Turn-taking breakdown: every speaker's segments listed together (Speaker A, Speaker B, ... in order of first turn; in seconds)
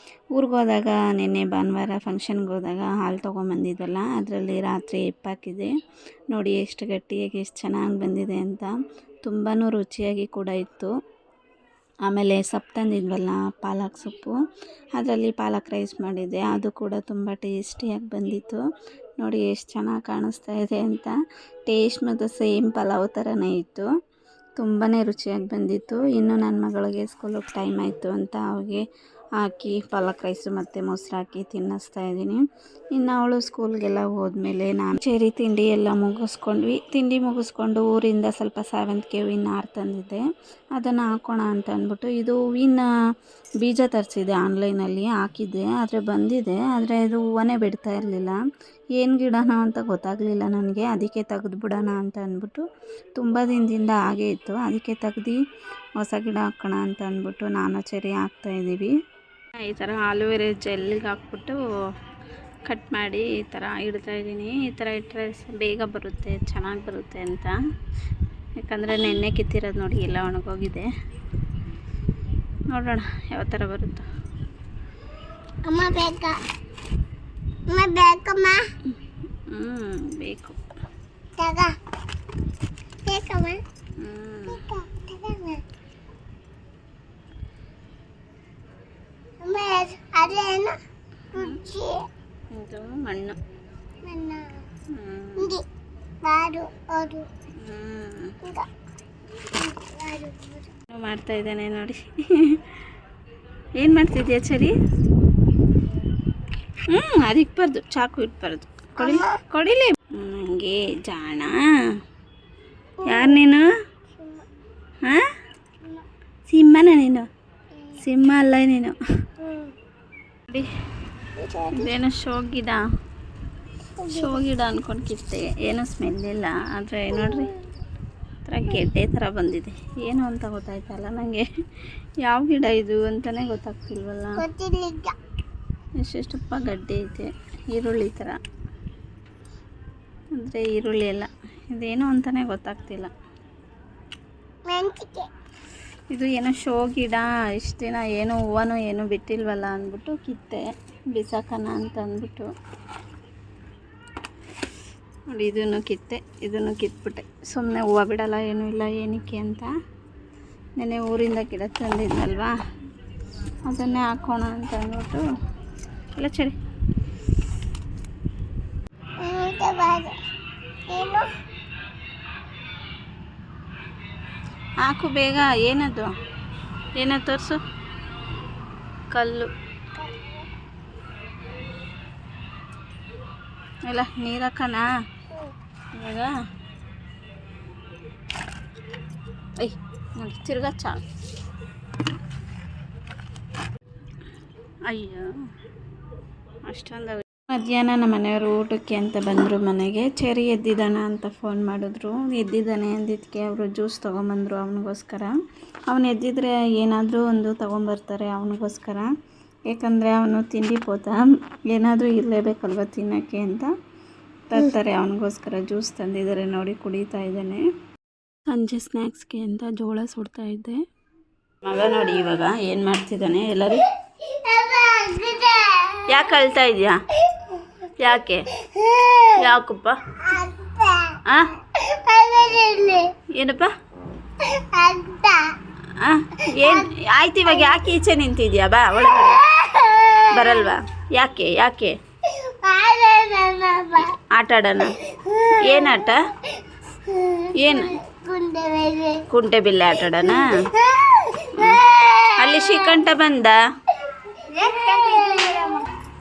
Speaker A: 0.3-5.7, 6.3-10.9, 12.1-14.3, 15.0-18.6, 19.2-21.1, 21.7-23.9, 24.6-28.8, 29.4-32.4, 32.9-40.2, 40.7-42.9, 43.6-48.4, 49.0-55.4, 56.0-58.9, 59.5-61.6, 62.6-67.6, 68.6-70.9, 72.7-74.1, 79.5-80.6, 84.0-84.6, 91.3-91.6, 92.5-93.4, 94.9-95.5, 97.6-98.4, 100.9-102.6, 103.8-104.7, 106.9-111.6, 113.1-113.7, 116.5-117.2, 118.0-119.0, 121.7-122.8, 124.1-127.5, 128.4-131.5, 132.2-134.4, 136.0-138.4, 140.3-143.1, 146.1-152.5, 155.3-159.7, 160.8-162.6, 163.7-165.2, 166.2-166.5, 174.8-176.1, 176.9-177.6, 179.1-179.5, 183.9-184.8, 185.9-186.3, 189.6-191.0, 194.9-195.2, 196.7-205.3, 205.9-209.1, 209.7-213.7, 214.5-217.6, 218.5-220.8, 221.6-223.9, 226.1-227.0, 228.0-228.5, 229.3-229.9, 231.2-231.5, 233.3-233.7, 235.9-239.4, 240.3-241.9, 244.1-245.0, 245.5-246.2, 247.5-247.9, 249.3-250.6, 251.5-251.8, 252.4-253.6, 254.7-255.7
Speaker B: 75.7-76.3, 77.7-78.6, 81.4-81.7, 83.0-83.6, 84.5-85.6, 89.4-90.8, 91.3-92.1, 94.0-94.6, 95.3-95.6, 96.2-97.3, 99.7-100.6, 109.0-109.4, 113.0-113.4, 114.2-114.4, 119.4-119.7, 121.3-121.9, 124.0-124.4, 127.1-127.7, 134.4-135.1, 144.7-145.3, 169.2-170.1, 170.9-171.3, 179.9-180.4, 224.2-226.3, 227.3-227.6, 228.6-229.4, 230.2-231.2, 231.7-233.1, 234.4-235.5, 236.5-236.9, 237.4-237.8, 239.1-240.8, 242.3-244.2, 245.0-249.2, 250.1-253.0, 254.1-255.8